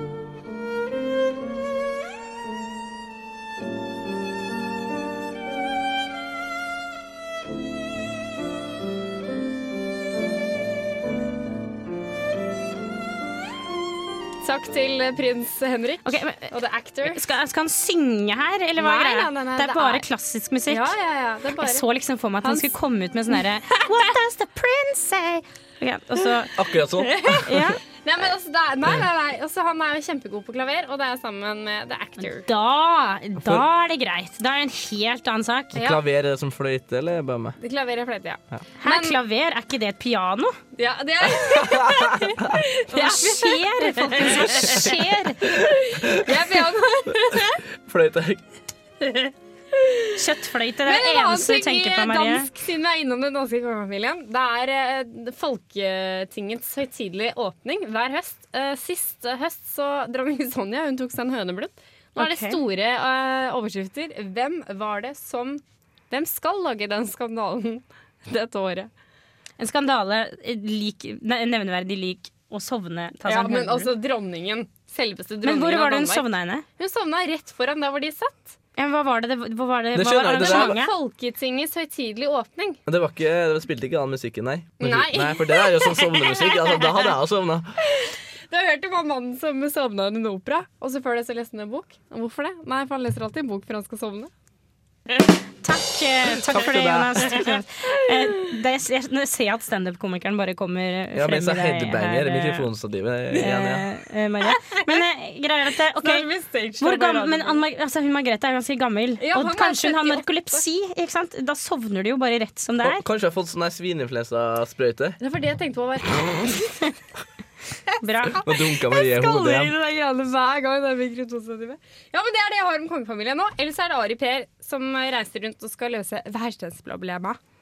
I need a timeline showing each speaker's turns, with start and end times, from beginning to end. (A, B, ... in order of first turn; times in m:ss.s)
0:14.4-0:17.2 A
0:16.0-0:20.9 B
0:18.8-0:20.0 A
0:20.7-0:21.8 A
0:21.6-0:27.8 B
0:22.4-0:22.7 A
0:23.3-0:24.1 A
0:26.5-0:27.7 C
0:28.0-0:32.5 A
0:32.2-0:35.7 B
0:35.7-0:36.0 A
0:35.7-0:37.6 C
0:37.6-0:39.2 A
0:38.8-0:40.6 B
0:40.8-0:47.6 A
0:41.4-0:42.4 C
0:42.9-0:45.5 B
0:45.9-0:46.3 C
0:47.8-0:48.4 C
0:49.0-0:50.2 A
0:50.1-0:52.5 B
0:50.8-1:08.9 A
1:02.2-1:02.6 B
1:09.6-1:13.9 B
1:13.2-1:16.2 A
1:15.4-1:16.6 B
1:16.8-1:18.5 A
1:18.8-1:20.9 B
1:19.9-1:20.8 C
1:20.4-1:22.8 A
1:22.9-1:27.7 C
1:24.8-1:27.1 A
1:27.8-1:34.3 A
1:35.2-1:42.7 B
1:36.4-1:37.4 C
1:37.3-1:38.6 A
1:41.1-1:43.9 C
1:43.3-1:46.3 B
1:44.4-1:45.0 A
1:46.0-1:47.6 A
1:46.8-1:53.0 B
1:49.2-1:50.6 A
1:52.8-1:55.2 C
1:55.2-1:56.8 A
1:58.0-1:58.5 B
1:58.3-1:59.7 C
1:58.4-2:07.4 A